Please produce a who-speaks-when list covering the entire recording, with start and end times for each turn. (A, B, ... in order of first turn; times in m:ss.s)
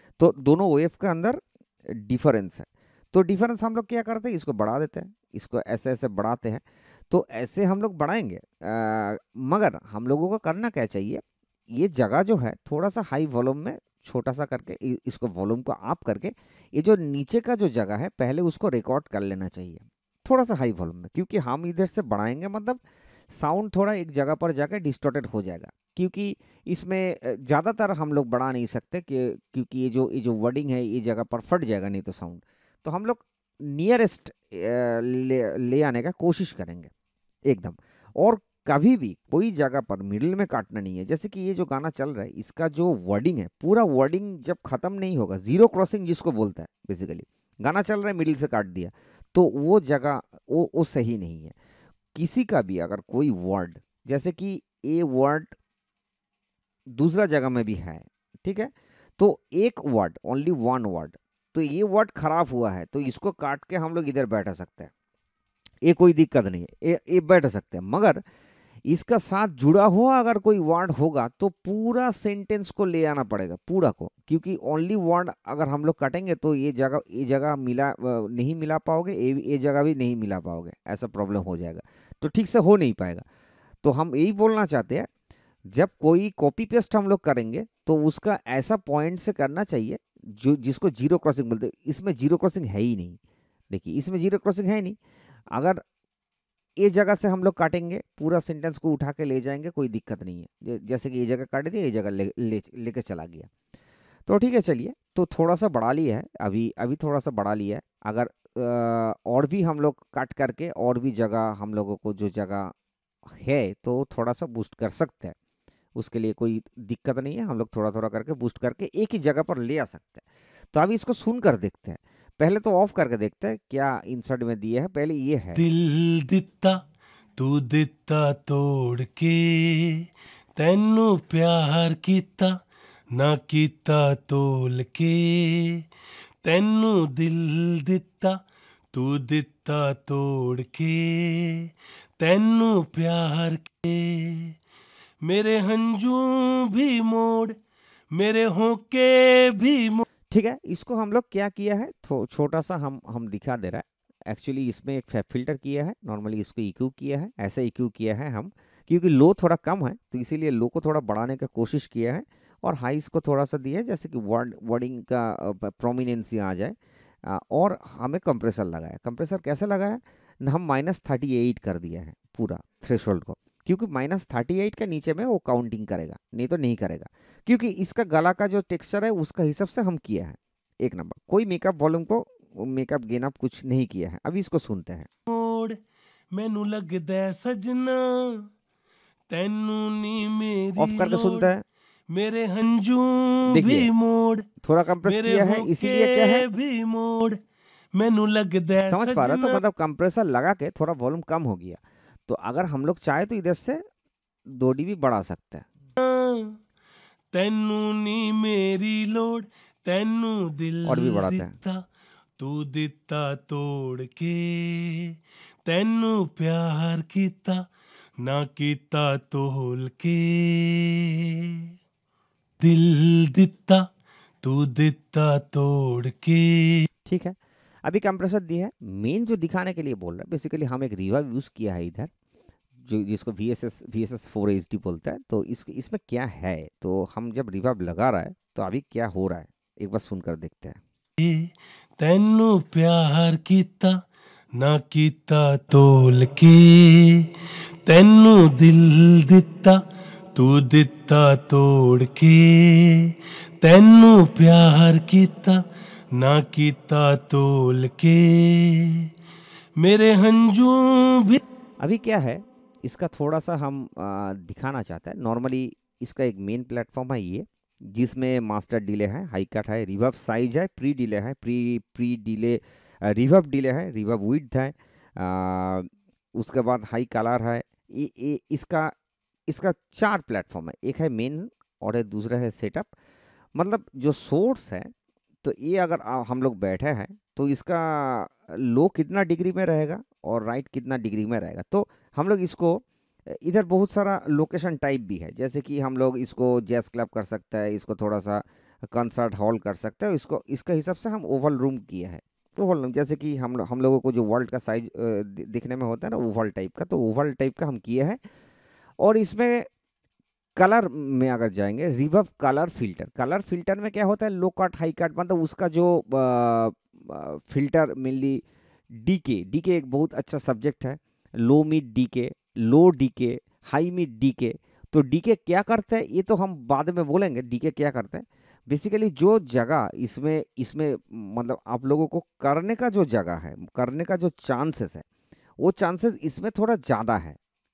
0:00.2-0:36.9 A
0:37.5-0:51.6 A
0:52.1-0:55.6 A
0:56.9-1:04.9 A
1:05.8-1:08.2 A
1:08.8-1:23.2 A
1:23.8-1:25.1 A
1:25.6-1:33.2 A
1:33.7-1:35.0 A
1:35.5-1:35.8 A
1:36.8-1:43.5 A
1:44.3-1:52.7 A
1:53.2-1:55.4 A
1:56.0-2:05.6 A
2:05.6-2:06.8 B
2:07.4-2:12.6 B
2:13.1-2:15.8 B
2:16.4-2:18.4 B
2:18.9-2:24.6 B
2:25.2-2:27.5 B
2:28.1-2:30.0 B
2:30.3-3:05.1 A
3:05.3-3:05.8 B
3:06.3-3:08.5 B
3:09.3-3:11.5 B
3:10.8-3:11.6 A
3:12.1-3:14.4 B
3:13.4-3:13.9 A
3:14.6-3:16.5 A
3:15.0-3:17.4 B
3:17.9-3:19.6 B
3:18.8-3:23.8 A
3:24.5-3:25.7 A
3:26.0-3:26.6 B
3:27.3-3:31.8 B
3:30.8-3:31.6 A
3:32.4-3:37.6 B
3:38.2-3:41.7 B
3:42.6-3:43.8 B
3:44.4-3:46.9 B
3:47.0-3:52.1 A
3:52.8-4:00.8 A
4:01.2-4:04.0 B
4:04.6-4:07.3 B
4:07.8-4:09.8 B
4:10.3-4:15.6 B
4:16.1-4:19.1 B
4:19.8-4:21.4 B
4:21.8-4:38.9 A
4:39.5-4:42.9 A
4:43.5-4:44.9 A
4:45.4-5:08.2 A
5:09.0-5:09.7 A
5:10.6-5:35.0 A
5:35.6-5:37.4 A